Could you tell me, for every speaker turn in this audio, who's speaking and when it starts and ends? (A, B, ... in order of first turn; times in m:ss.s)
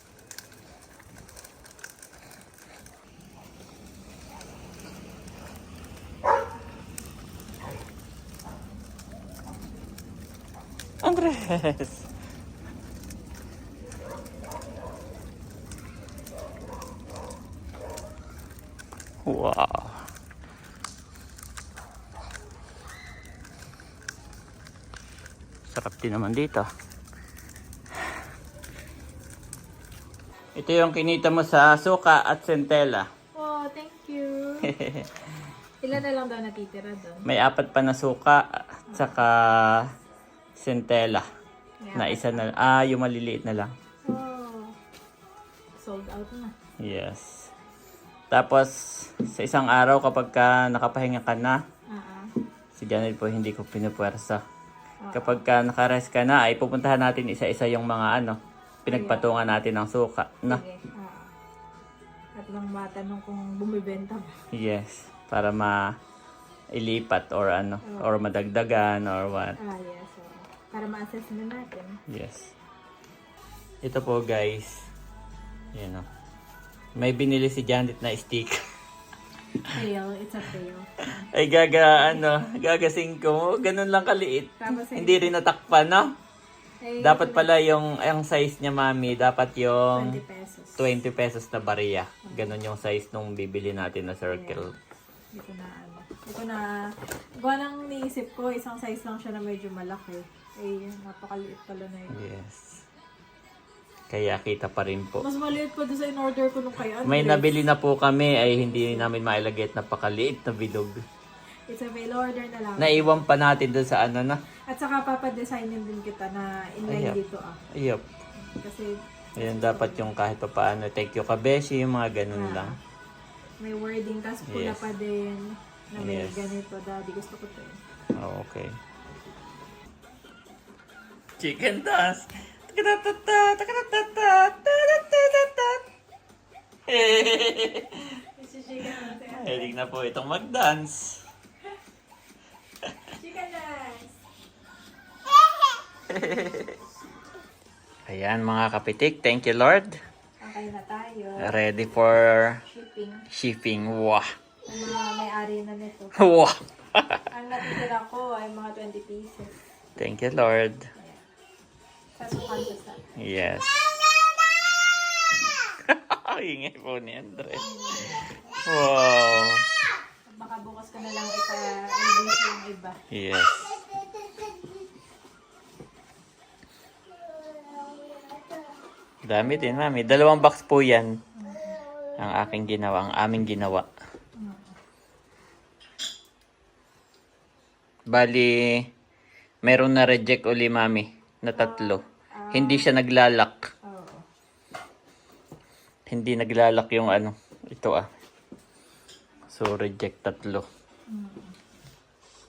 0:11.0-0:12.0 A
0:19.2-0:20.0 A
0:25.7-0:26.6 A
0:30.6-0:33.1 A
0:33.3-0:34.7 B
0:34.7-0:35.1 A
0:35.8-0:37.2 B
0:37.2-0:39.8 A
0:38.9-0:39.2 B
0:40.6-0:41.2 A
0:41.8-0:42.3 B
0:41.9-0:43.7 A
0:44.0-0:44.7 B
0:45.8-0:46.5 B
0:46.8-0:47.5 A
0:48.3-0:51.6 A
0:51.9-0:52.3 B
0:52.7-0:54.4 A
0:55.0-0:55.4 B
0:55.1-1:00.6 A
0:58.9-0:59.4 B
1:00.4-1:01.3 B
1:02.4-1:04.3 B
1:04.5-1:05.8 A
1:06.7-1:09.6 A
1:07.8-1:08.2 B
1:09.6-1:12.0 B
1:12.1-1:12.5 A
1:13.8-1:14.8 A
1:15.7-1:16.0 A
1:17.0-1:18.6 A
1:19.7-1:20.8 B
1:21.3-1:26.1 A
1:24.6-1:25.3 B
1:26.8-1:27.5 B
1:27.0-1:30.2 A
1:29.9-1:30.9 B
1:30.8-1:34.7 A
1:34.3-1:34.6 B
1:35.3-1:36.8 B
1:37.4-1:42.2 B
1:42.1-1:42.8 A
1:44.1-1:45.2 A
1:45.2-1:47.6 B
1:47.0-1:50.9 A
1:48.6-1:49.1 B
1:51.7-1:53.2 B
1:52.8-1:54.4 A
1:54.7-1:57.6 B
1:56.9-1:57.2 A
1:57.8-1:58.0 A
1:58.4-2:00.1 B
1:59.4-2:02.7 A
2:02.3-2:02.8 B
2:03.6-2:07.8 B
2:04.5-2:04.8 A
2:06.0-2:06.4 A
2:08.2-2:08.7 A
2:11.4-2:15.8 A
2:16.9-2:17.9 A
2:18.4-2:19.8 B
2:19.2-2:21.2 A
2:23.1-2:24.2 B
2:26.1-2:26.7 A
2:28.1-2:29.9 A
2:30.4-2:31.5 B
2:31.4-2:32.6 A
2:32.7-2:33.2 B
2:33.3-2:34.2 A
2:34.7-2:36.1 B
2:36.2-2:37.2 A
2:37.3-2:39.5 B
2:40.0-2:40.8 A
2:41.0-2:41.2 B
2:42.2-2:43.0 B
2:43.2-2:44.1 A
2:45.8-2:47.7 A
2:47.6-2:48.1 B
2:48.7-2:49.6 A
2:50.3-2:53.0 B
2:53.1-2:53.8 A
2:59.2-3:01.1 A
3:01.4-3:01.8 B
3:02.2-3:03.9 A
3:04.4-3:04.7 B
3:08.1-3:08.8 A
3:09.6-3:12.0 A
3:11.5-3:12.9 B
3:12.5-3:13.6 A
3:13.8-3:14.2 B
3:16.1-3:18.0 A
3:19.5-3:20.6 A
3:21.1-3:21.5 B